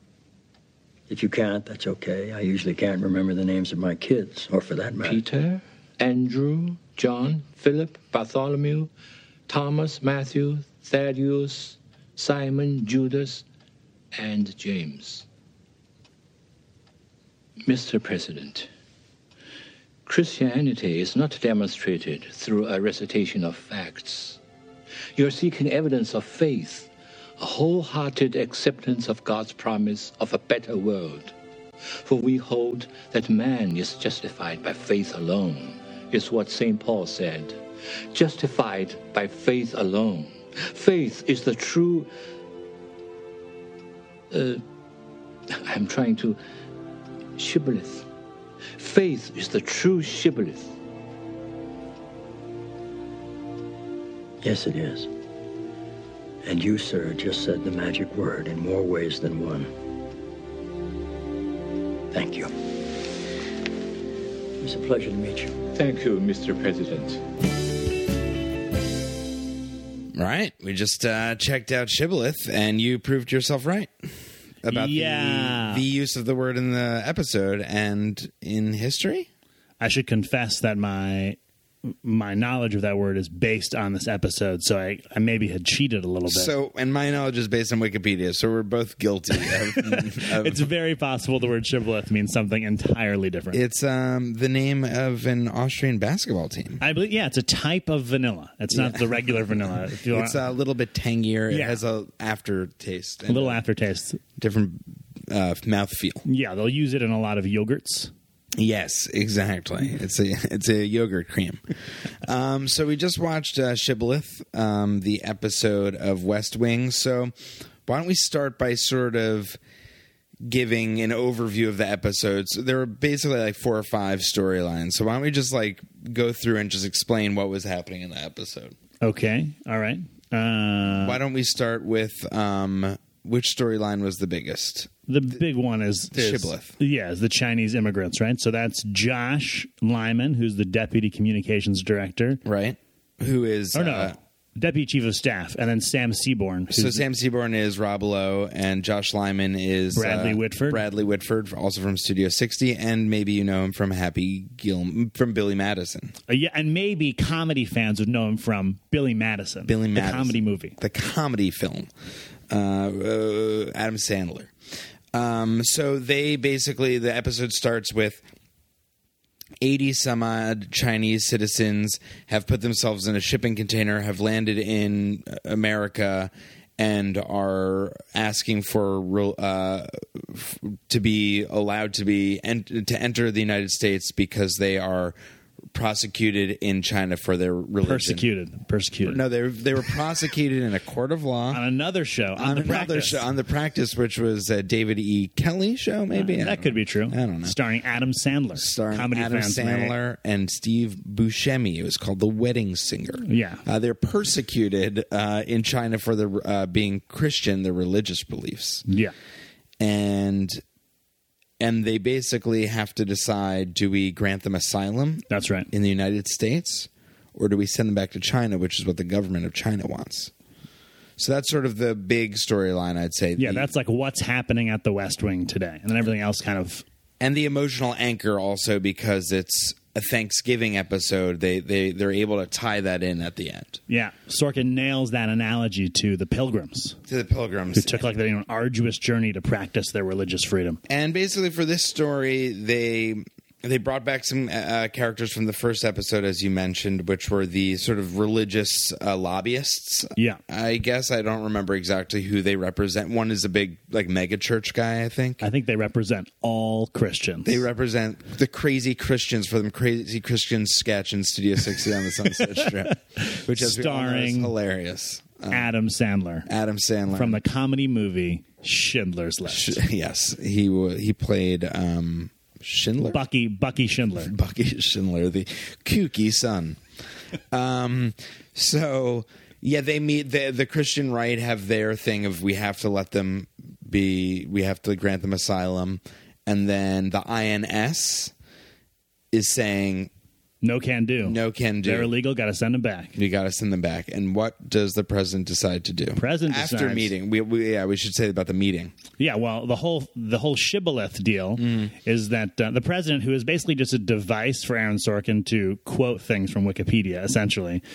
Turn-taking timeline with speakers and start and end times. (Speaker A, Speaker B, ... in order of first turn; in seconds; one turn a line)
Speaker A: 1.1-5.2
Speaker B: 5.0-8.9
Speaker B: 9.5-13.4
Speaker B: 14.1-15.2
Speaker B: 17.6-18.7
Speaker B: 20.1-24.4
Speaker B: 25.1-31.3
Speaker B: 31.9-37.6
Speaker B: 38.1-42.1
Speaker B: 44.3-44.6
Speaker B: 45.5-46.4
Speaker B: 47.4-48.1
Speaker B: 48.8-50.7
Speaker A: 54.4-55.1
Speaker A: 56.4-59.7
Speaker A: 62.1-62.5
Speaker A: 64.6-65.5
Speaker B: 65.7-67.2
Speaker C: 70.1-73.9
Speaker C: 74.6-79.3
Speaker D: 74.7-75.8
Speaker D: 79.8-86.5
Speaker C: 86.3-90.7
Speaker D: 89.7-93.6
Speaker C: 93.5-96.8
Speaker D: 96.8-100.4
Speaker C: 98.7-99.3
Speaker C: 100.1-103.6
Speaker D: 101.5-101.8
Speaker D: 103.3-104.2
Speaker C: 104.4-106.2
Speaker D: 106.2-108.1
Speaker C: 108.6-111.6
Speaker C: 112.2-117.3
Speaker C: 117.8-119.6
Speaker C: 120.5-128.8
Speaker D: 129.0-131.2
Speaker C: 131.0-134.9
Speaker D: 135.1-142.4
Speaker C: 136.1-136.7
Speaker C: 142.4-144.2
Speaker D: 143.7-147.0
Speaker C: 146.7-156.1
Speaker D: 149.9-150.8
Speaker D: 156.3-160.8
Speaker C: 159.7-161.9
Speaker C: 162.5-164.5
Speaker C: 165.1-168.2
Speaker C: 169.6-185.2
Speaker C: 185.7-188.3
Speaker D: 187.8-189.2
Speaker C: 189.1-191.6
Speaker D: 191.5-193.2
Speaker C: 192.4-197.6
Speaker D: 196.1-199.9
Speaker C: 198.6-208.8
Speaker D: 203.2-203.6
Speaker D: 208.9-209.1
Speaker C: 209.8-210.6
Speaker C: 211.6-220.3
Speaker D: 215.3-215.7
Speaker C: 221.2-223.7
Speaker D: 223.4-226.8
Speaker C: 227.2-233.8
Speaker D: 233.9-237.0
Speaker C: 237.1-238.1
Speaker D: 237.8-240.8
Speaker C: 240.9-255.4
Speaker D: 255.4-257.6
Speaker C: 257.4-265.7
Speaker D: 262.4-264.5
Speaker D: 265.5-266.5
Speaker C: 266.4-267.4
Speaker D: 267.1-269.8
Speaker C: 269.5-273.2
Speaker D: 273.1-274.3
Speaker C: 274.2-276.8
Speaker C: 277.5-288.3
Speaker C: 289.3-290.1
Speaker D: 290.6-293.1
Speaker C: 291.2-292.1
Speaker C: 293.1-298.9
Speaker D: 296.1-297.1
Speaker D: 299.2-307.8
Speaker C: 301.6-301.9